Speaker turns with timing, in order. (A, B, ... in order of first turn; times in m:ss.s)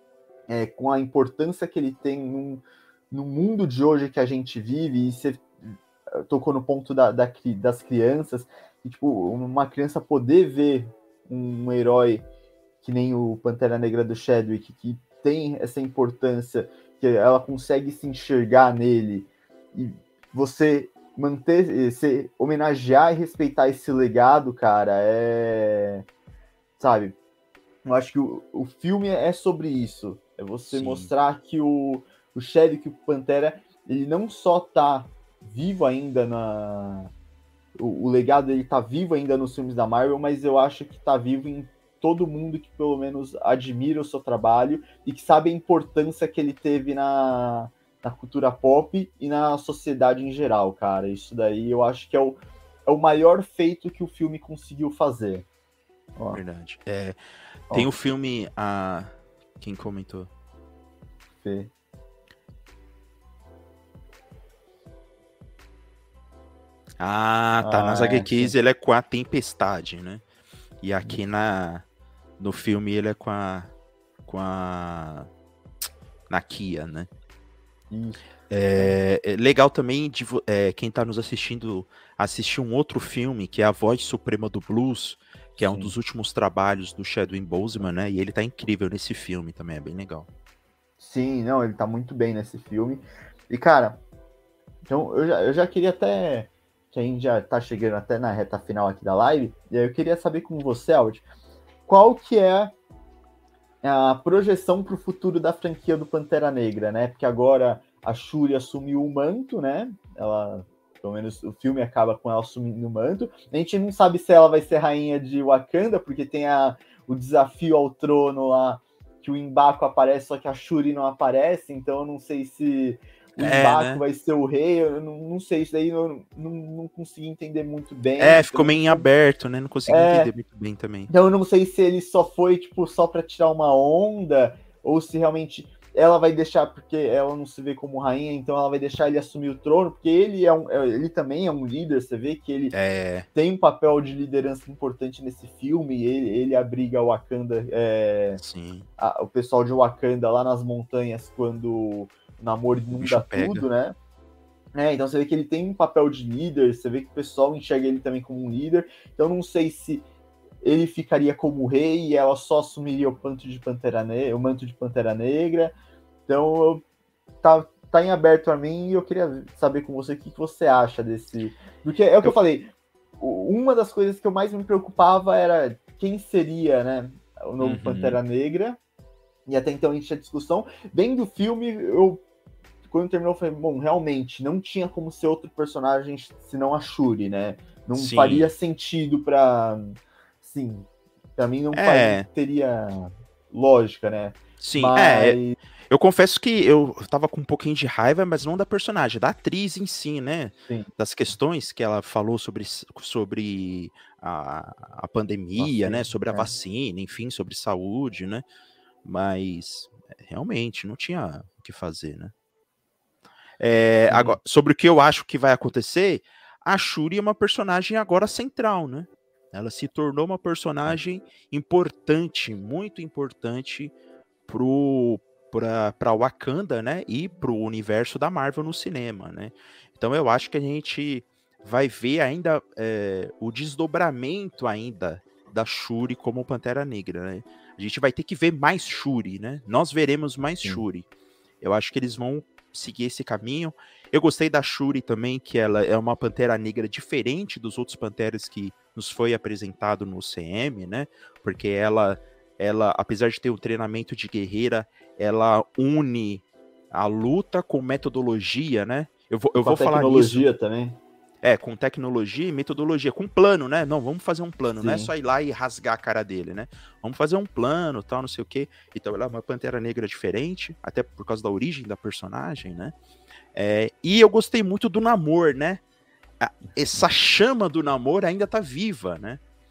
0:00.5-0:12.3 A
0:12.8-0:26.0 A
0:26.8-0:27.2 A
0:27.8-0:37.1 A
0:30.7-0:31.1 B
0:37.8-0:55.4 A
0:56.2-0:56.4 A
0:56.3-0:57.2 B
0:57.7-1:00.3 B
1:01.4-1:01.7 A
1:07.0-1:10.2 B
1:07.6-1:08.6 A
1:10.8-1:11.8 B
1:12.4-1:13.7 B
1:14.2-1:15.3 B
1:16.3-1:17.1 B
1:17.9-1:18.2 A
1:18.5-1:30.3 B
1:25.6-1:26.0 A
1:31.0-1:34.0 A
1:34.8-1:41.2 A
1:41.9-1:42.7 A
1:43.8-2:09.1 A
2:03.4-2:04.0 B
2:08.2-2:11.1 B
2:09.9-2:10.3 A
2:11.1-2:22.7 A
2:22.7-2:23.3 B
2:23.3-2:28.4 A
2:28.4-2:28.9 B
2:29.0-2:33.9 A
2:33.0-2:33.6 B
2:34.7-2:40.0 A
2:40.6-2:45.7 A
2:46.3-2:46.8 A
2:47.4-2:52.7 A
2:53.2-2:58.8 A
2:57.6-2:58.2 B
2:59.5-3:02.2 A
3:02.9-3:15.6 A
3:07.9-3:08.5 B
3:11.7-3:12.3 B
3:14.6-3:15.4 B
3:15.9-3:28.4 B
3:25.6-3:26.6 A
3:29.0-3:32.3 B
3:33.6-3:43.9 B
3:34.1-3:34.4 A
3:44.5-4:01.0 B
4:01.6-4:20.4 B
4:19.6-4:21.0 A
4:21.4-4:32.9 B
4:24.8-4:25.1 A
4:33.5-4:35.8 B
4:36.4-4:39.4 B